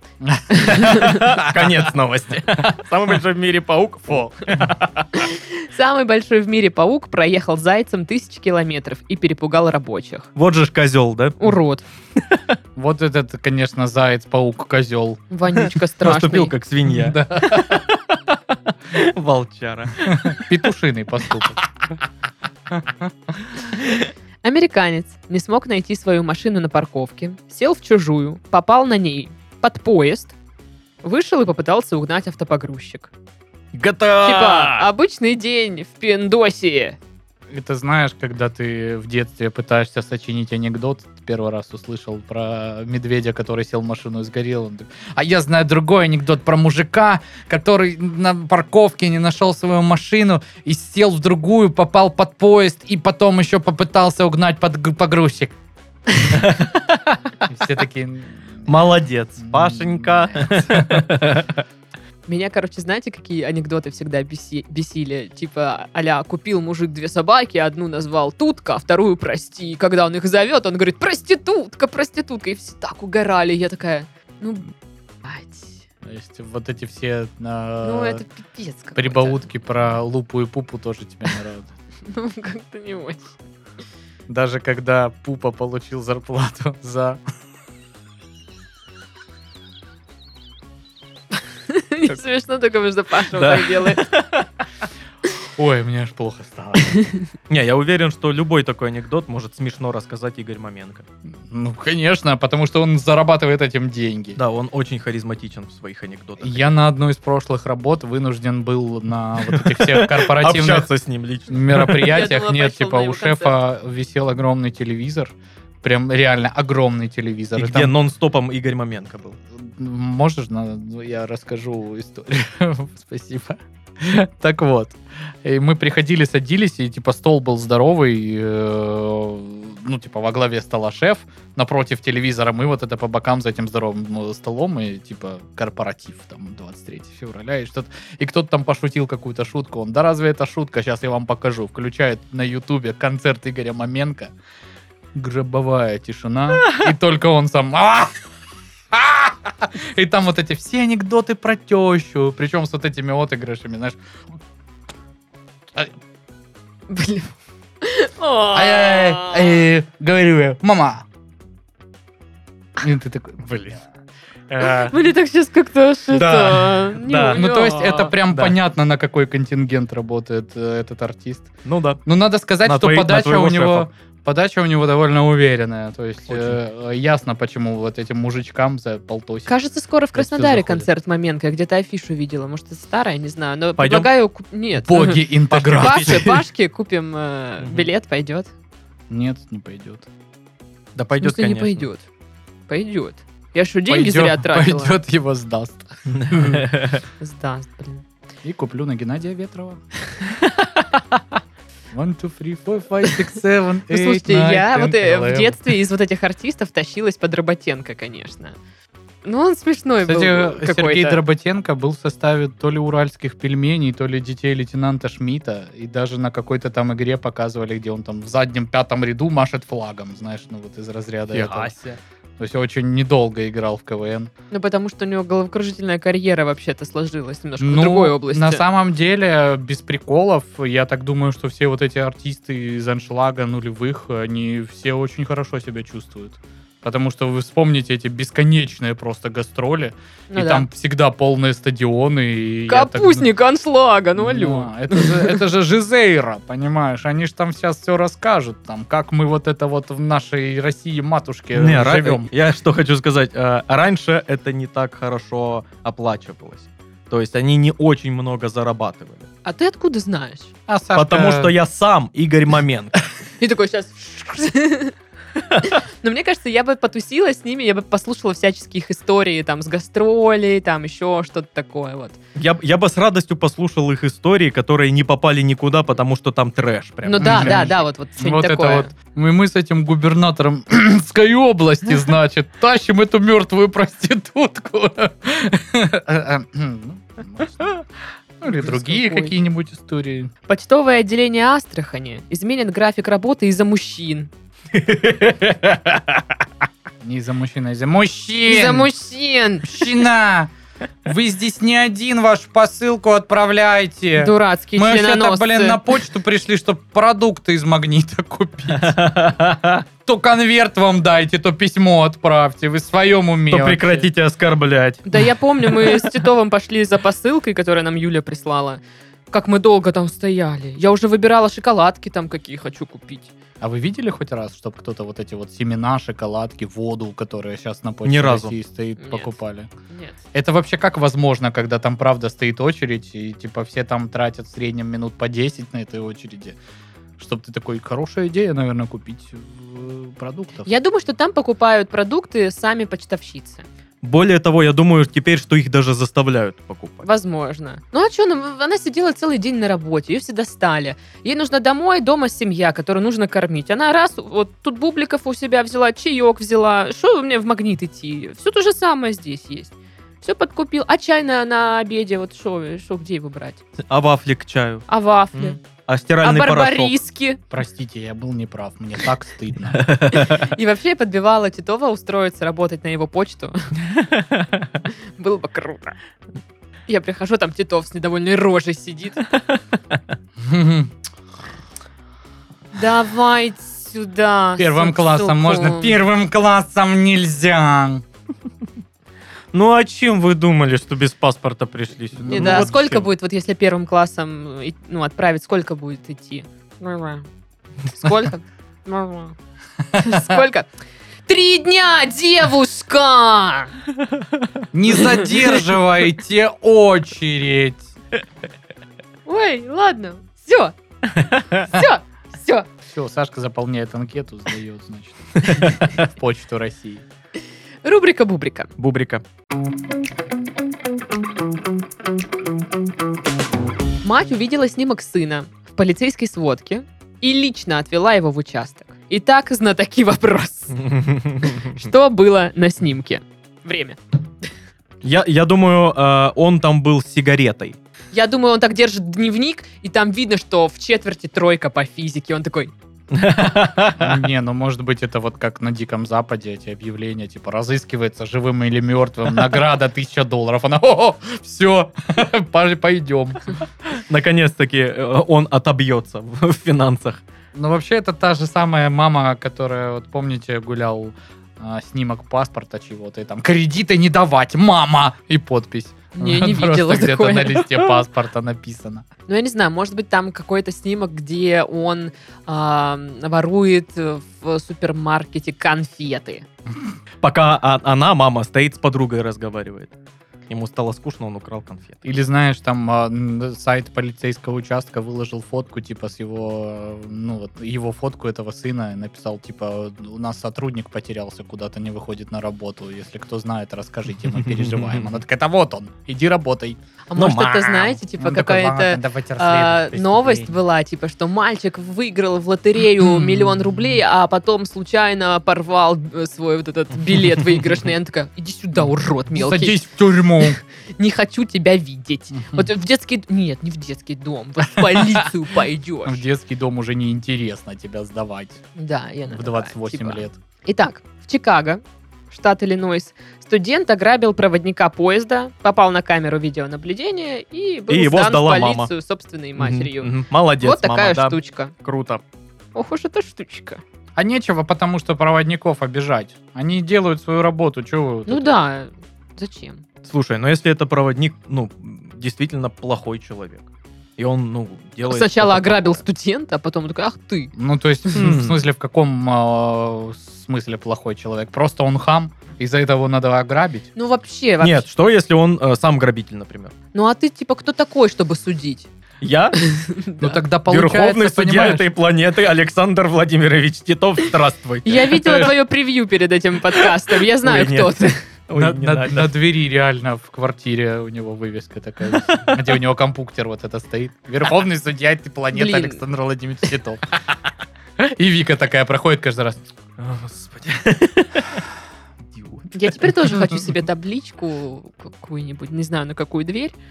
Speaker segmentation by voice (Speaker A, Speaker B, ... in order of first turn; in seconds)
Speaker A: 0.2-1.9, 12.8-15.2, 16.9-17.8, 20.1-21.7, 22.7-23.1, 37.5-55.5, 56.3-56.7, 57.4-58.7, 59.4-61.1, 76.0-78.2, 79.0-81.7, 84.3-87.2, 95.6-96.9, 101.5-104.4, 106.4-110.9, 111.5-117.9, 119.6-144.3, 145.2-148.1, 148.9-154.0, 158.5-161.1, 162.8-163.6, 164.5-164.9, 167.3-171.5, 172.1-179.5, 180.1-180.9, 184.8-186.4, 189.1-190.1, 193.9-196.6, 198.4-199.8, 201.9-205.6, 210.0-221.7, 222.4-224.3, 227.6-243.3, 244.2-252.3, 260.7-261.5, 277.2-287.8, 288.4-290.3, 297.0-298.9, 299.6-300.5, 301.1-309.0, 310.1-314.1, 323.6-329.7, 330.3-336.6, 337.2-340.7, 367.5-369.9, 380.4-380.9, 384.6-388.0, 392.2-392.9, 399.9-400.4, 404.7-407.9, 412.9-417.1, 444.0-453.6, 457.5-469.1, 482.0-496.8, 498.2-500.5, 503.1-503.5, 509.3-510.6, 512.4-512.7, 514.9-515.3, 516.0-518.6, 519.3-520.4, 534.2-538.5, 547.6-553.9, 560.2-561.9, 568.6-577.0, 578.0-579.7
Speaker B: 0.5-1.2, 5.2-10.3, 11.4-11.8, 15.3-16.5, 24.4-30.4, 31.0-33.1, 34.2-37.0, 62.3-74.7, 75.2-75.8, 77.8-79.5, 82.1-83.3, 91.7-94.0, 96.9-97.2, 112.0-113.5, 156.9-159.6, 164.6-168.1, 179.5-188.5, 191.2-192.1, 192.7-195.0, 197.2-198.1, 203.9-208.6, 209.2-211.2, 224.5-228.6, 240.3-240.7, 242.7-245.4, 259.4-260.5, 263.4-264.9, 265.5-272.2, 277.1-278.9, 288.5-289.4, 290.5-294.3, 298.5-299.9, 304.2-305.8, 315.1-323.3, 329.0-329.3, 329.9-330.2, 340.6-343.7, 347.0-363.6, 364.9-365.6, 366.2-367.4, 370.1-373.8, 374.9-376.0, 376.9-379.3, 382.7-386.0, 392.3-397.3, 397.9-399.4, 400.0-400.7, 401.3-403.7, 409.3-410.8, 411.6-412.7, 417.8-418.7, 424.0-430.8, 431.4-434.0, 438.1-442.7, 466.1-467.9, 469.3-476.5, 497.1-509.9, 510.4-516.2, 518.8-531.7, 532.8-533.8, 538.3-539.8, 545.0-547.5, 554.0-554.9, 556.9-558.9, 559.6-560.4, 564.9-568.2, 575.5-576.0, 582.7-586.7
Speaker C: 0.7-5.2, 10.4-11.5, 12.2-12.6, 16.0-18.4, 18.9-20.5, 33.7-34.9, 56.4-57.0, 58.7-61.6, 93.3-94.5, 97.5-101.0, 104.4-106.7, 109.5-112.2, 117.6-119.4, 163.4-163.8, 166.1-167.4, 171.7-172.0, 172.6-173.9, 176.3-176.6, 183.8-184.1, 185.5-186.4, 187.6-187.9, 190.9-191.9, 196.1-197.0, 200.4-200.8, 221.3-222.0, 251.6-259.3, 260.9-263.0, 272.4-277.7, 294.7-296.3, 308.8-309.8, 313.5-316.1, 328.1-328.5, 344.0-347.1, 363.9-366.9, 369.8-370.4, 374.0-374.8, 389.5-393.0, 411.1-411.6, 415.4-415.8, 418.8-419.2, 430.8-431.8, 435.0-437.8, 443.1-444.2, 453.9-457.2, 477.2-479.9, 480.5-482.1, 494.3-495.1, 497.2-498.0, 527.9-528.9, 529.6-532.2, 540.0-543.6, 544.2-546.0, 548.1-548.6, 554.6-556.7, 559.2-559.7, 560.7-565.5, 566.7-569.3, 580.0-581.6, 582.3-582.8